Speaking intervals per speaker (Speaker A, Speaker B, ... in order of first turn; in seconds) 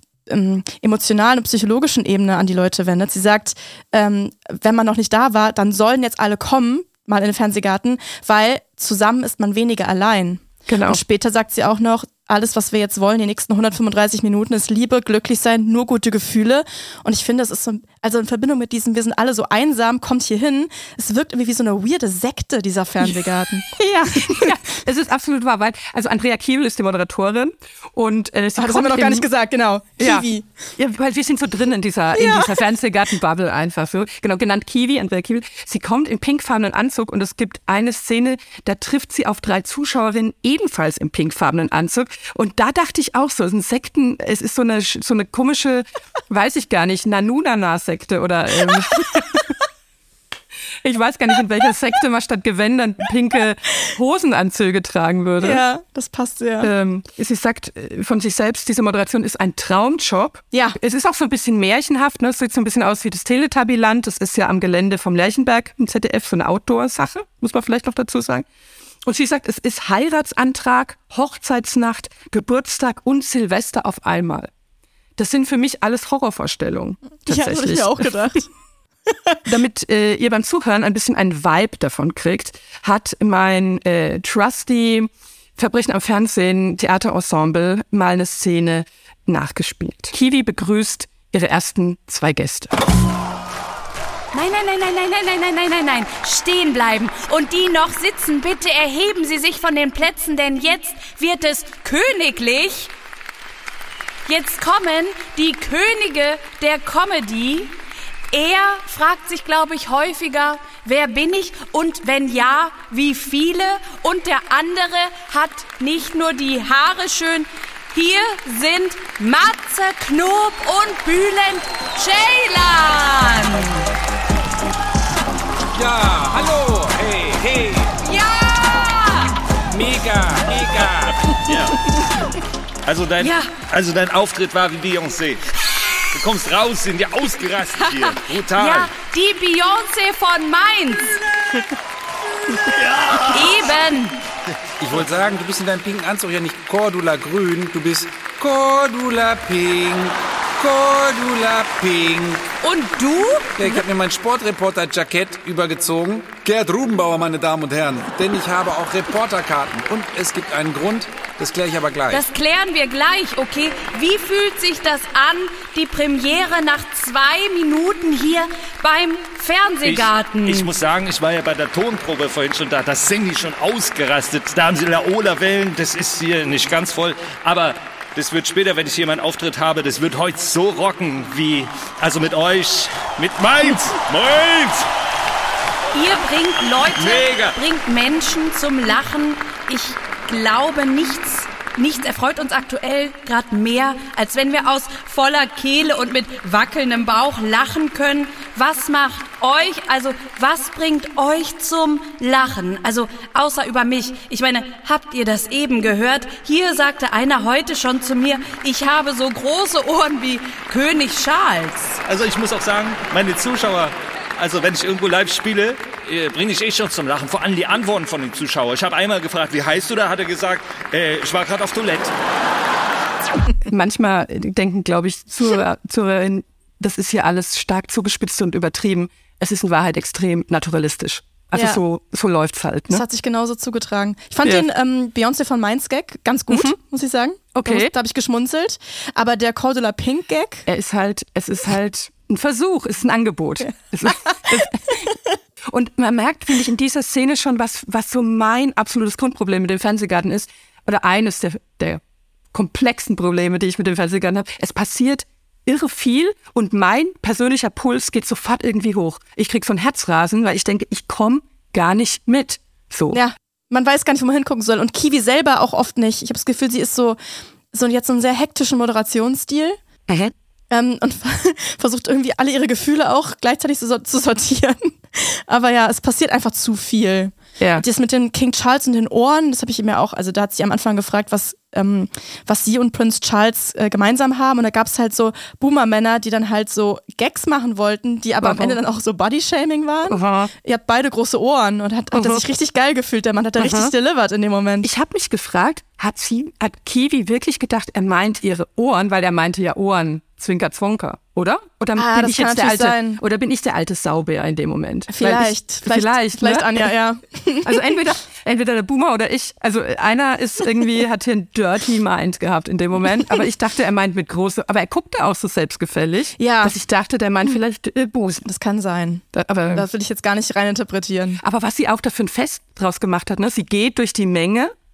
Speaker A: 0.3-24.5, 28.6-30.5, 32.1-32.6, 55.4-56.7, 60.5-60.8, 77.3-78.4, 79.1-79.4, 231.5-231.8, 232.9-240.7, 263.1-267.2, 267.7-269.8, 270.7-294.9, 301.9-303.2, 305.1-308.0, 316.4-316.7, 318.4-321.4
Speaker B: 10.7-11.0, 23.0-29.3, 30.0-30.2, 30.8-49.5, 50.8-55.6, 56.6-68.5, 69.0-74.5, 75.2-78.1, 79.5-92.7, 223.7-233.0, 236.5-236.8, 237.5-237.9, 240.7-245.1, 245.7-252.0, 252.5-263.2, 277.6-277.8, 288.4-288.8, 290.1-290.5, 292.1-292.4, 293.6-293.9, 294.8-306.9, 307.6-318.5, 319.3-319.9, 321.4-324.7
Speaker C: 94.3-102.9, 104.2-107.7, 108.3-123.8, 128.0-129.3, 133.2-133.5, 138.0-141.1, 143.2-144.2, 152.6-153.8, 162.1-170.7, 185.9-212.0
Speaker D: 125.7-127.9, 129.7-131.3, 144.8-152.4, 153.6-162.2
Speaker E: 130.6-132.0, 132.8-135.4, 136.1-138.9, 143.0-143.3, 169.8-184.9, 186.8-187.5, 212.1-222.1